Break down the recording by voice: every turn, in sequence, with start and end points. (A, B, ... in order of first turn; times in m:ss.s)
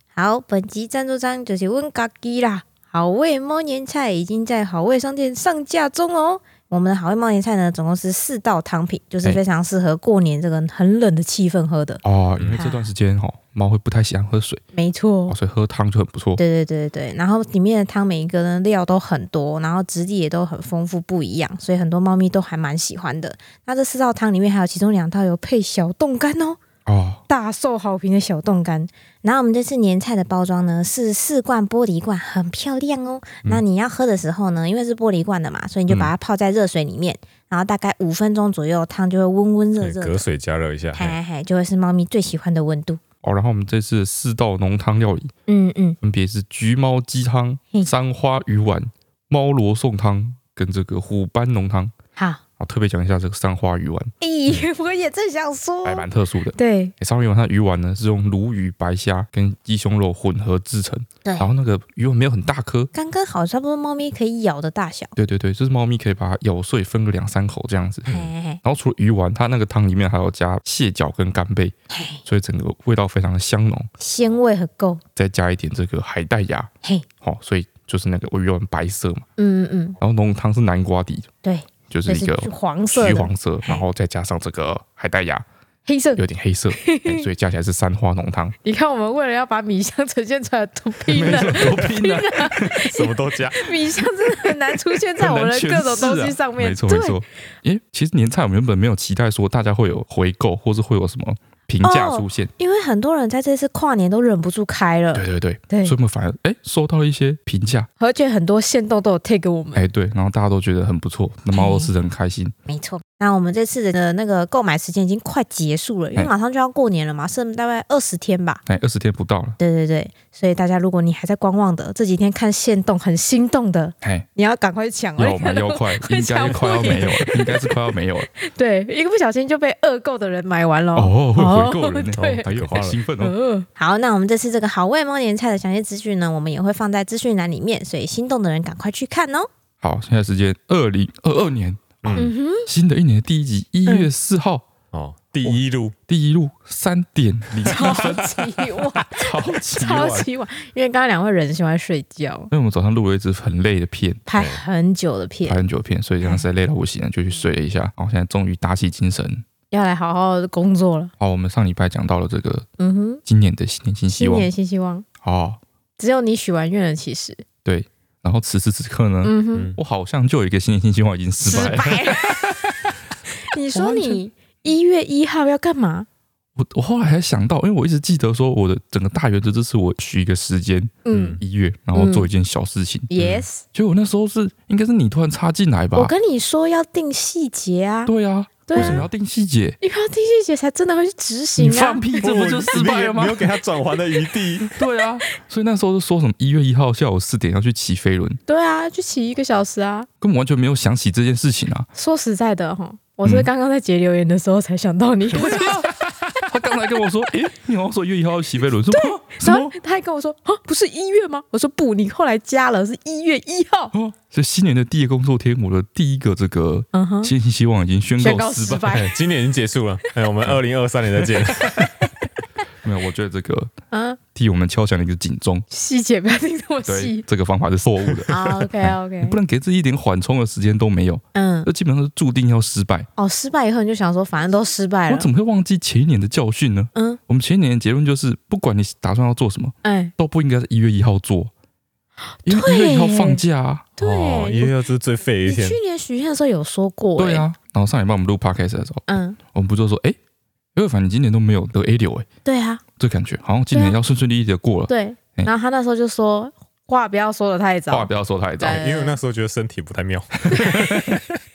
0:00.1-0:12.0 A
0:12.0-0:14.6 B
0:12.4-0:12.6 C
0:12.6-0:12.9 A
0:14.7-0:15.4 A
0:15.3-0:16.4 B
0:16.4-0:26.6 A
0:26.8-0:27.2 B
0:27.3-0:40.2 A
0:39.8-0:41.2 C
0:40.9-0:43.0 A
0:43.2-0:45.3 B
0:45.5-0:46.0 A
0:46.0-0:51.9 B
0:52.2-0:52.4 A
0:52.6-0:54.1 B
0:54.2-0:56.9 A
0:55.8-1:02.9 B
1:01.2-1:01.5 A
1:02.9-1:05.1 A
1:05.2-1:08.1 B
1:08.1-1:08.6 A
1:08.6-1:11.7 B
1:11.9-1:12.2 A
1:12.2-1:13.9 B
1:14.0-1:15.0 A
1:15.2-1:16.7 B
1:17.2-1:19.2 B
1:19.4-1:20.0 A
1:20.0-1:21.3 B
1:21.4-1:23.8 A
1:21.9-1:25.4 B
1:25.8-1:26.2 A
1:26.2-1:28.6 B
1:26.8-1:27.3 A
1:28.6-1:37.2 A
1:31.1-1:32.9 B
1:32.9-1:33.7 C
1:34.9-1:42.5 B
1:41.8-1:45.9 A
1:45.1-1:47.9 B
1:48.0-1:49.8 A
1:49.7-1:52.5 B
1:51.5-1:51.9 A
1:52.7-1:58.6 A
1:58.6-1:59.6 B
1:59.6-2:12.5 A
2:04.0-2:04.3 B
2:05.2-2:08.3 B
2:10.9-2:13.3 B
2:12.2-2:13.0 C
2:13.2-2:19.5 A
2:19.8-2:24.6 B
2:22.0-2:22.3 C
2:22.2-2:22.6 A
2:24.9-2:26.0 C
2:26.1-2:30.2 B
2:27.6-2:32.5 A
2:32.5-2:34.2 B
2:34.3-2:35.6 A
2:35.4-2:39.4 B
2:39.7-2:41.1 A
2:41.2-2:42.7 B
2:42.8-2:43.2 A
2:43.2-2:44.5 B
2:44.1-2:45.0 A
2:45.2-2:45.6 B
2:46.0-2:47.4 A
2:47.6-2:52.7 B
2:49.2-2:49.7 A
2:49.5-2:49.8 C
2:51.5-2:52.5 A
2:53.4-2:56.1 A
2:53.7-2:54.2 B
2:56.6-3:03.1 B
3:01.0-3:01.4 A
3:01.1-3:01.4 C
3:01.9-3:02.3 A
3:03.1-3:03.6 A
3:03.2-3:03.4 C
3:03.7-3:06.1 B
3:05.9-3:08.1 A
3:08.0-3:09.8 B
3:08.7-3:09.0 A
3:08.8-3:09.1 C
3:09.8-3:12.0 A
3:11.6-3:13.4 B
3:12.1-3:14.7 C
3:14.1-3:14.7 A
3:14.8-3:18.4 B
3:18.5-3:20.1 A
3:20.2-3:21.9 B
3:21.9-3:25.9 A
3:25.3-3:29.7 B
3:28.9-3:33.9 A
3:33.9-3:39.0 B
3:36.9-3:37.3 A
3:38.2-3:39.1 A
3:38.9-3:41.9 C
3:41.5-3:41.9 B
3:42.8-3:43.7 B
3:43.9-3:44.2 A
3:44.3-3:45.6 B
3:45.7-3:47.2 A
3:46.8-3:53.1 B
3:48.3-3:49.4 A
3:51.3-3:51.7 A
3:53.2-3:55.3 A
3:55.1-4:01.5 B
3:59.8-4:00.1 A
4:02.4-4:03.4 A
4:02.4-4:03.8 B
4:04.0-4:04.7 A
4:04.0-4:05.8 C
4:05.4-4:07.4 A
4:07.2-4:10.2 B
4:09.1-4:09.4 A
4:10.7-4:12.3 B
4:12.4-4:12.8 A
4:13.0-4:15.5 B
4:13.7-4:14.0 A
4:14.9-4:19.2 A
4:17.9-4:18.8 B
4:18.6-4:21.2 C
4:20.4-4:21.2 B